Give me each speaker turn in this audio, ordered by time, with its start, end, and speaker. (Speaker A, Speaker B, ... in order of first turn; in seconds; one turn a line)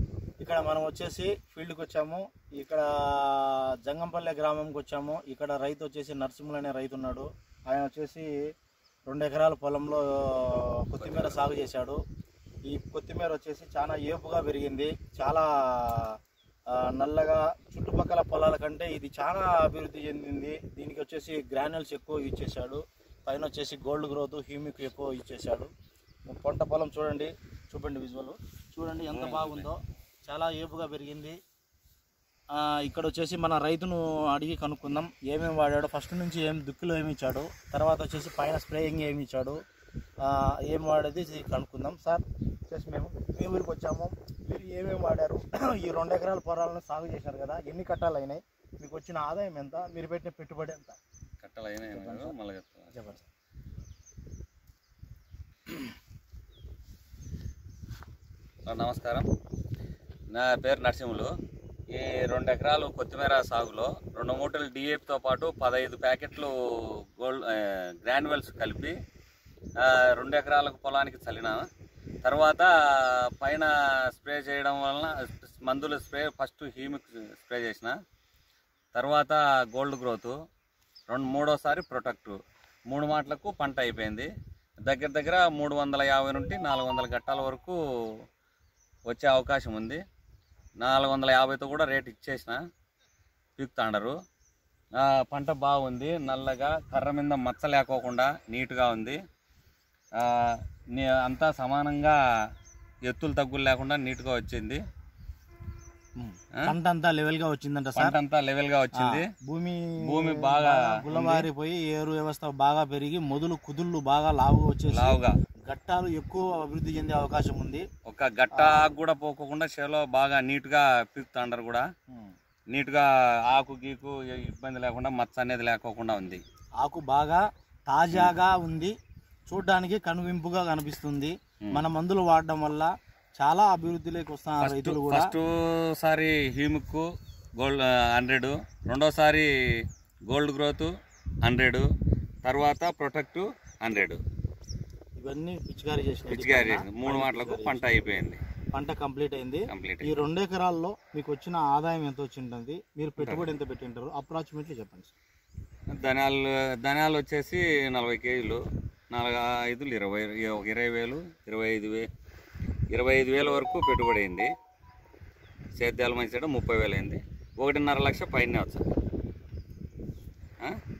Speaker A: 0.4-8.3
Speaker A: 9.1-12.0
Speaker B: 11.0-11.4
Speaker A: 12.7-16.2
Speaker A: 16.7-25.7
Speaker A: 26.3-31.4
Speaker B: 29.1-29.7
Speaker A: 32.5-39.6
Speaker A: 40.2-51.0
Speaker B: 51.4-52.9
Speaker A: 51.9-52.3
Speaker A: 52.9-53.3
Speaker B: 58.6-59.3
Speaker B: 60.3-61.3
Speaker B: 61.9-69.0
Speaker B: 69.8-71.6
Speaker B: 72.2-77.9
Speaker B: 78.9-80.3
Speaker B: 81.1-82.4
Speaker B: 82.9-84.3
Speaker B: 84.8-87.8
Speaker B: 89.1-90.0
Speaker B: 90.8-92.6
Speaker B: 93.6-94.2
Speaker B: 95.0-99.2
Speaker B: 100.2-102.2
Speaker B: 103.1-104.8
Speaker A: 106.2-108.2
Speaker B: 108.0-109.3
Speaker A: 109.0-115.2
Speaker B: 110.0-111.5
Speaker B: 114.9-115.3
Speaker A: 115.7-117.8
Speaker B: 118.0-121.8
Speaker A: 118.5-118.9
Speaker A: 122.1-122.3
Speaker B: 122.7-126.4
Speaker A: 126.8-128.9
Speaker A: 129.5-135.3
Speaker B: 134.6-137.0
Speaker B: 137.6-140.9
Speaker B: 141.4-141.8
Speaker B: 142.4-144.2
Speaker A: 145.2-147.8
Speaker B: 146.3-148.4
Speaker A: 148.7-155.1
Speaker B: 149.7-150.2
Speaker B: 153.2-153.5
Speaker B: 155.9-158.6
Speaker B: 159.1-162.0
Speaker B: 162.9-164.5
Speaker B: 165.8-168.8